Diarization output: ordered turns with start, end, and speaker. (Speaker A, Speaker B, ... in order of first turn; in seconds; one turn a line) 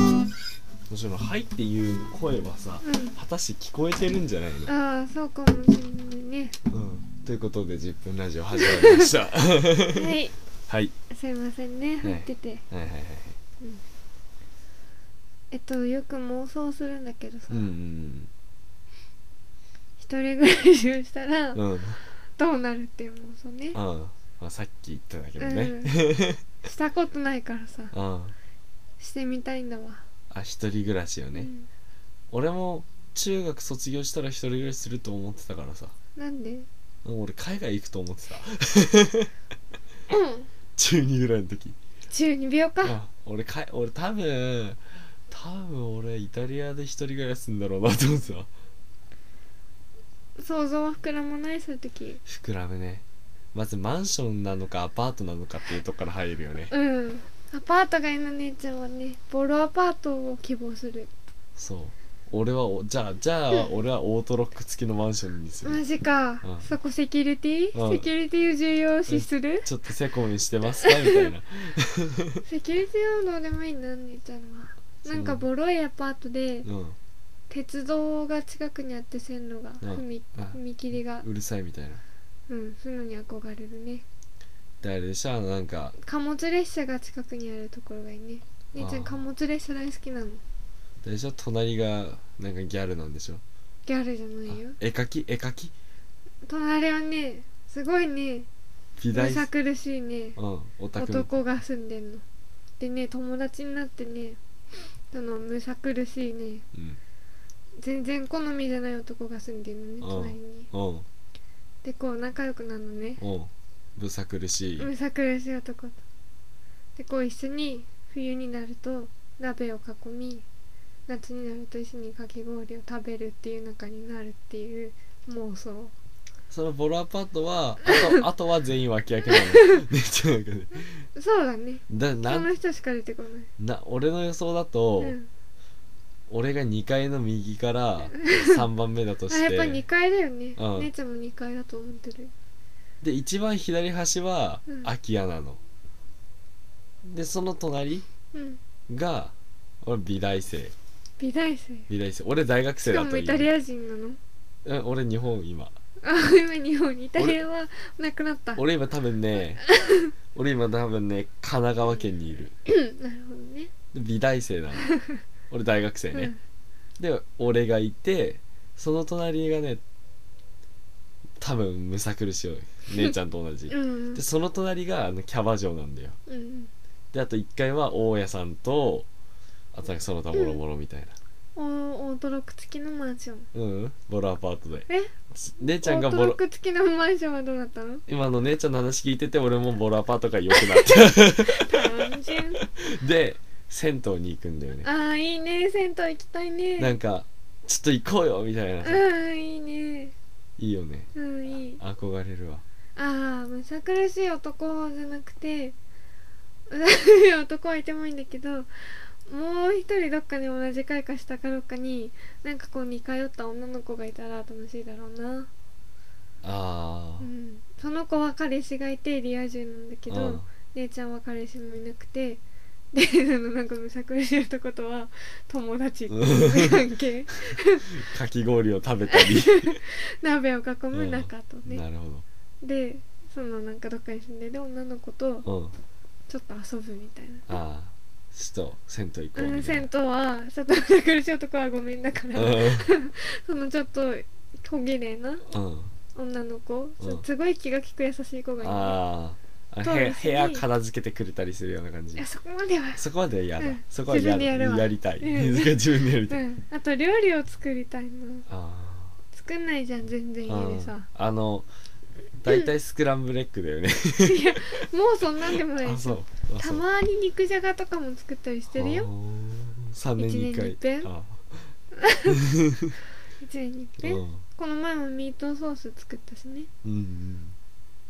Speaker A: 0.9-4.7
Speaker B: 2.8-3.2
Speaker B: 4.7-6.6
Speaker A: 6.7-10.9
Speaker B: 8.6-9.1
Speaker B: 9.9-10.3
Speaker B: 11.1-12.6
Speaker A: 12.0-13.4
Speaker B: 15.5-17.7
Speaker A: 17.5-18.3
Speaker B: 20.0-23.8
Speaker A: 21.6-22.0
Speaker A: 23.7-26.4
Speaker B: 25.4-26.0
Speaker B: 26.6-27.9
Speaker A: 27.9-28.4
Speaker B: 29.0-30.0
Speaker A: 30.3-31.5
Speaker B: 31.4-31.7
Speaker A: 32.3-35.9
Speaker B: 36.2-36.7
Speaker A: 37.0-39.3
Speaker B: 40.1-40.5
Speaker A: 40.8-41.8
Speaker B: 42.1-43.0
Speaker A: 42.8-48.5
Speaker B: 50.4-52.2
Speaker A: 52.3-56.7
Speaker B: 56.7-61.1
Speaker A: 61.6-65.8
Speaker B: 65.6-69.7
Speaker A: 66.4-66.7
Speaker A: 67.7-68.1
Speaker A: 69.1-72.4
Speaker B: 70.8-71.3
Speaker B: 72.4-76.7
Speaker A: 75.1-75.5
Speaker A: 76.6-77.0
Speaker B: 77.5-81.3
Speaker A: 79.8-80.6
Speaker A: 81.2-82.0
Speaker B: 82.5-84.0
Speaker A: 84.8-86.0
Speaker B: 86.0-90.4
Speaker A: 88.8-89.2
Speaker A: 91.0-93.4
Speaker B: 93.9-94.8
Speaker A: 94.5-95.7
Speaker B: 96.5-98.5
Speaker A: 99.0-99.5
Speaker B: 99.1-100.4
Speaker A: 100.4-101.3
Speaker B: 101.0-102.2
Speaker B: 102.8-104.4
Speaker B: 105.1-106.7
Speaker A: 106.7-107.0
Speaker B: 107.8-110.7
Speaker A: 110.0-111.1
Speaker B: 111.8-113.2
Speaker A: 113.2-114.9
Speaker B: 114.8-116.0
Speaker B: 117.0-120.5
Speaker B: 121.1-125.9
Speaker A: 126.5-131.0
Speaker B: 129.3-129.8
Speaker B: 131.2-133.5
Speaker A: 131.9-132.5
Speaker A: 133.6-135.2
Speaker B: 135.0-135.3
Speaker A: 136.3-139.8
Speaker B: 138.2-138.6
Speaker B: 139.3-142.3
Speaker A: 140.6-140.9
Speaker A: 143.0-145.6
Speaker A: 147.0-148.1
Speaker B: 148.3-148.6
Speaker A: 148.9-150.7
Speaker B: 151.2-151.9
Speaker A: 151.9-153.5
Speaker B: 152.8-154.2
Speaker A: 154.7-155.7
Speaker B: 156.0-158.6
Speaker A: 158.6-159.6
Speaker B: 159.6-160.1
Speaker A: 160.3-162.6
Speaker B: 162.7-163.7
Speaker A: 163.9-164.9
Speaker A: 165.5-166.3
Speaker A: 167.0-169.8
Speaker A: 171.4-176.2
Speaker B: 173.7-174.2
Speaker B: 176.3-176.7
Speaker A: 177.1-179.1
Speaker A: 179.7-181.2
Speaker B: 180.3-180.6
Speaker B: 181.6-183.5
Speaker A: 183.5-186.4
Speaker B: 184.9-188.0
Speaker A: 188.1-192.1
Speaker B: 190.5-192.6
Speaker A: 192.6-194.9
Speaker B: 194.8-196.9
Speaker A: 196.8-199.1
Speaker B: 198.8-200.1
Speaker A: 200.6-201.1
Speaker B: 201.2-201.8
Speaker A: 201.8-202.6
Speaker B: 203.0-205.8
Speaker B: 206.7-215.5
Speaker A: 216.4-217.3
Speaker B: 217.2-222.4
Speaker A: 220.1-220.4
Speaker B: 222.9-228.0
Speaker A: 226.1-226.8
Speaker A: 227.9-229.8
Speaker B: 229.1-231.8
Speaker A: 230.9-232.3
Speaker B: 232.6-235.5
Speaker A: 235.4-235.8
Speaker B: 236.3-237.5
Speaker A: 237.5-239.9
Speaker B: 239.3-245.4
Speaker A: 242.3-242.9
Speaker A: 245.5-245.9
Speaker B: 246.2-249.0
Speaker A: 247.0-247.2
Speaker A: 248.6-252.2
Speaker B: 249.8-250.7
Speaker B: 252.2-253.0
Speaker A: 253.0-256.4
Speaker B: 253.6-258.5
Speaker A: 258.5-259.2
Speaker B: 259.3-261.1
Speaker A: 260.5-261.7
Speaker A: 262.4-264.8
Speaker B: 264.2-269.1
Speaker A: 265.7-266.9
Speaker A: 268.7-271.7
Speaker B: 270.2-271.1
Speaker B: 272.0-272.4
Speaker A: 272.3-272.9
Speaker B: 273.4-276.7
Speaker A: 274.0-274.4
Speaker A: 276.8-277.6